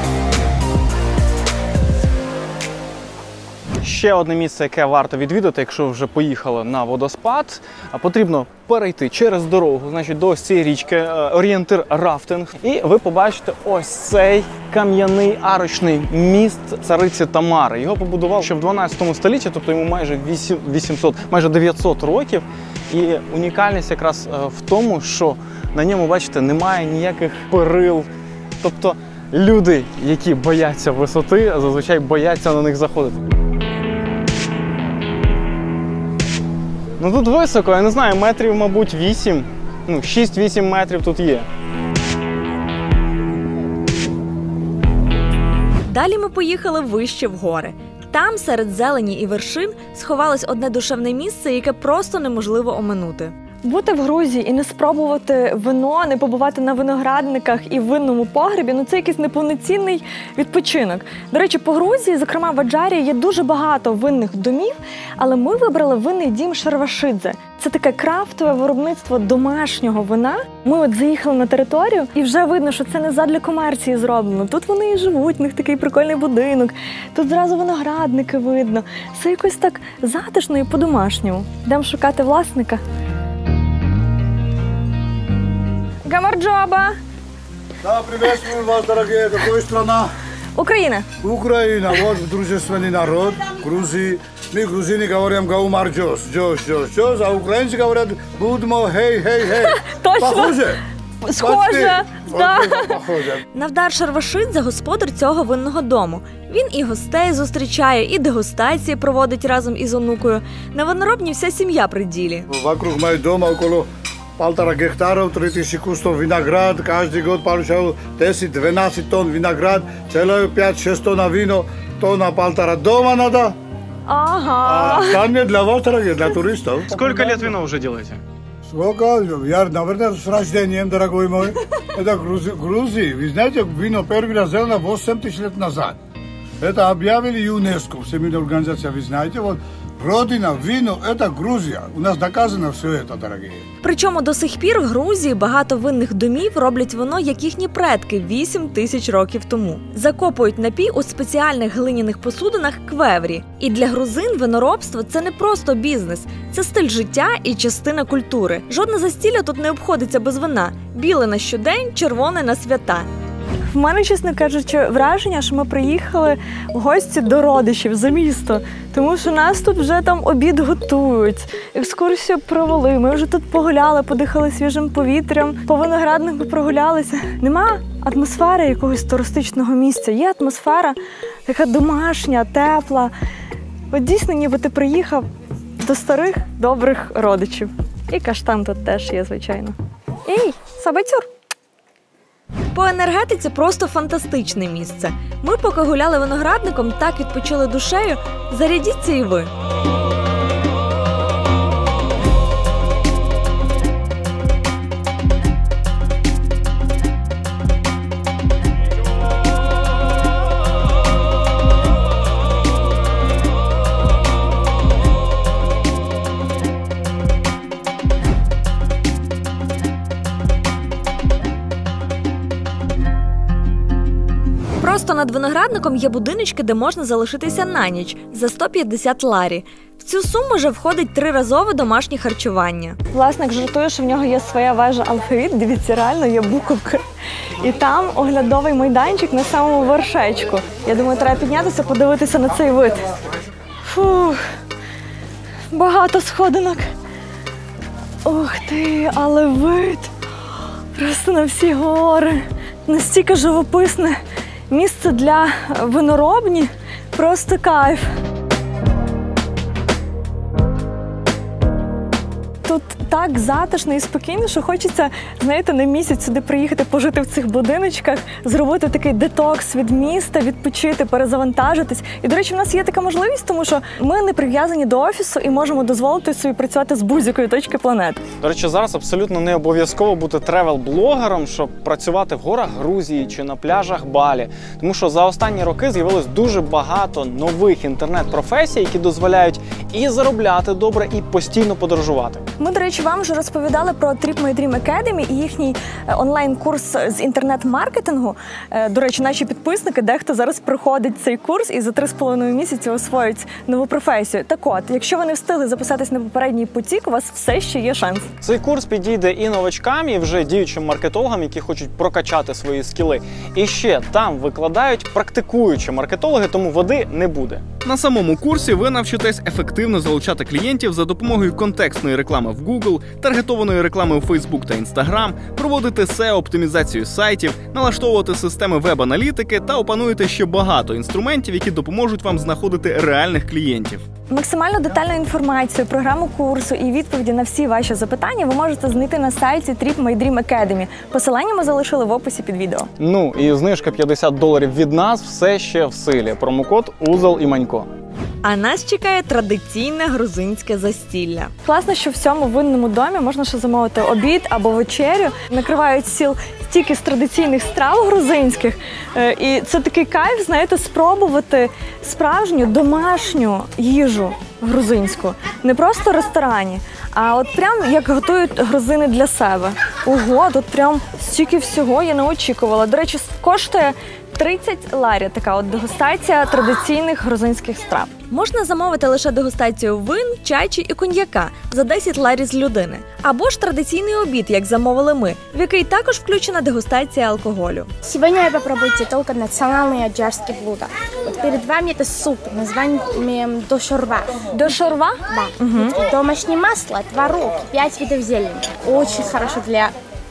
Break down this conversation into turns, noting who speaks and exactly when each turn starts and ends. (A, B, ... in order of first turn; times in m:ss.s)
0:03.8-0:28.1 A
0:28.6-0:33.3 A
0:37.0-0:41.5 A
0:45.8-0:53.3 B
0:53.6-1:22.8 C
1:26.0-1:27.0 C
1:27.8-1:30.1 D
1:30.6-1:31.0 C
1:31.2-1:40.8 D
1:39.7-1:40.6 C
1:41.2-1:42.9 C
1:41.4-1:43.4 D
1:43.5-1:52.5 B
1:52.5-2:03.6 D
2:04.1-2:05.2 C
2:04.6-2:07.5 D
2:06.9-2:08.2 A
2:08.6-2:16.0 D
2:16.6-2:23.6 D
2:23.8-2:43.1 B
2:43.7-3:03.1 C
3:03.9-3:05.3 C
3:05.8-3:09.7 C
3:10.2-3:11.2 C
3:12.7-3:19.5 B
3:44.8-3:53.0 B
3:53.1-3:57.0 C
3:57.6-4:03.1 C
4:03.8-4:04.4 C
4:05.7-4:06.9 C
4:08.2-4:10.1 C
4:10.9-4:14.2 C
4:14.7-4:18.0 C
4:22.6-4:38.2 C
4:38.4-4:52.4 A
4:52.6-5:08.3 C
5:08.4-5:17.7 A
5:17.8-5:34.0 E
5:34.3-5:42.9 C
5:43.0-5:47.9 A
5:48.4-5:51.5 B
5:51.6-6:18.1 C
6:18.3-6:27.9 B
6:28.0-6:34.4 F
6:34.5-6:36.0 C
6:35.3-6:39.9 F